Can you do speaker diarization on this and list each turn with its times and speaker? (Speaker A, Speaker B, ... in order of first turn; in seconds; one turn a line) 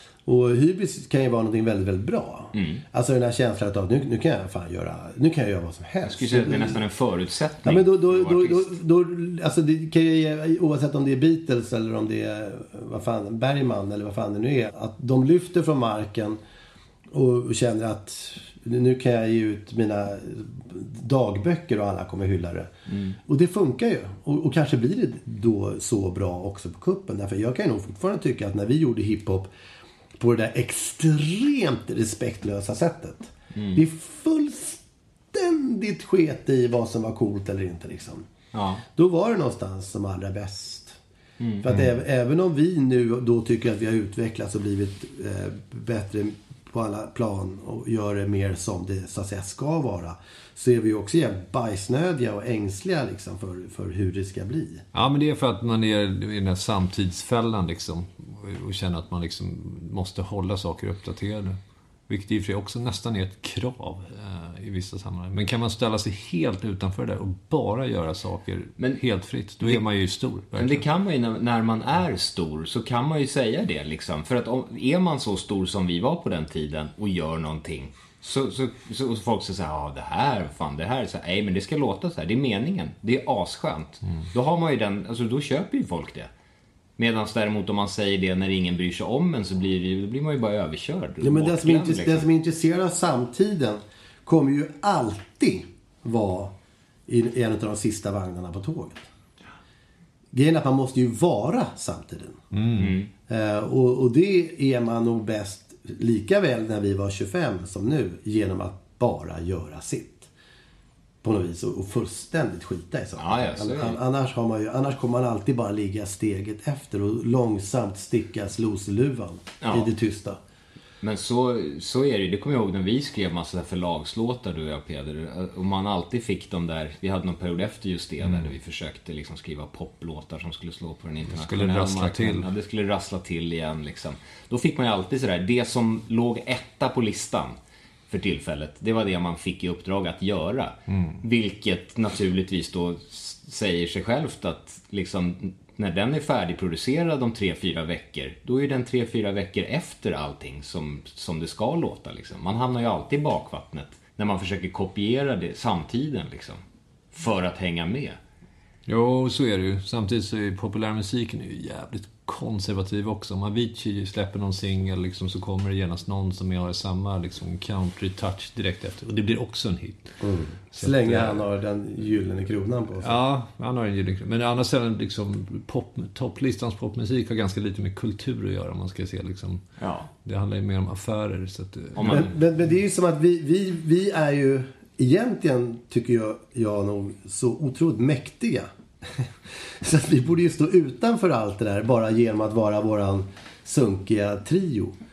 Speaker A: 0.2-6.8
Speaker B: 2.5-2.8
Speaker B: 6.0-8.7
Speaker A: 7.6-16.4
Speaker A: 17.1-22.7
Speaker B: 22.9-23.2
Speaker A: 23.3-29.5
Speaker A: 30.2-34.8
Speaker B: 33.5-33.8
Speaker A: 35.3-38.2
Speaker B: 38.5-38.8
Speaker A: 39.0-41.0
Speaker B: 41.4-41.6
Speaker A: 41.6-54.8
Speaker C: 54.9-61.6
Speaker C: 62.1-70.8
Speaker B: 69.6-69.9
Speaker B: 70.5-86.3
Speaker B: 87.0-92.2
Speaker A: 91.2-96.5
Speaker A: 97.1-99.0
Speaker A: 100.3-102.4
Speaker C: 102.5-103.0
Speaker B: 102.8-103.1
Speaker A: 103.3-110.3
Speaker A: 111.2-120.4
Speaker B: 113.2-114.0
Speaker B: 119.6-119.9
Speaker B: 121.0-137.6
Speaker C: 128.2-128.5
Speaker C: 131.3-132.4
Speaker B: 138.1-156.6
Speaker C: 140.9-141.2
Speaker B: 157.1-158.2
Speaker C: 158.9-170.1
Speaker A: 170.2-173.2
Speaker C: 170.7-171.4
Speaker C: 173.0-179.6
Speaker B: 179.8-180.1
Speaker C: 180.2-182.2
Speaker B: 181.9-182.3
Speaker A: 182.0-189.3
Speaker A: 189.8-195.0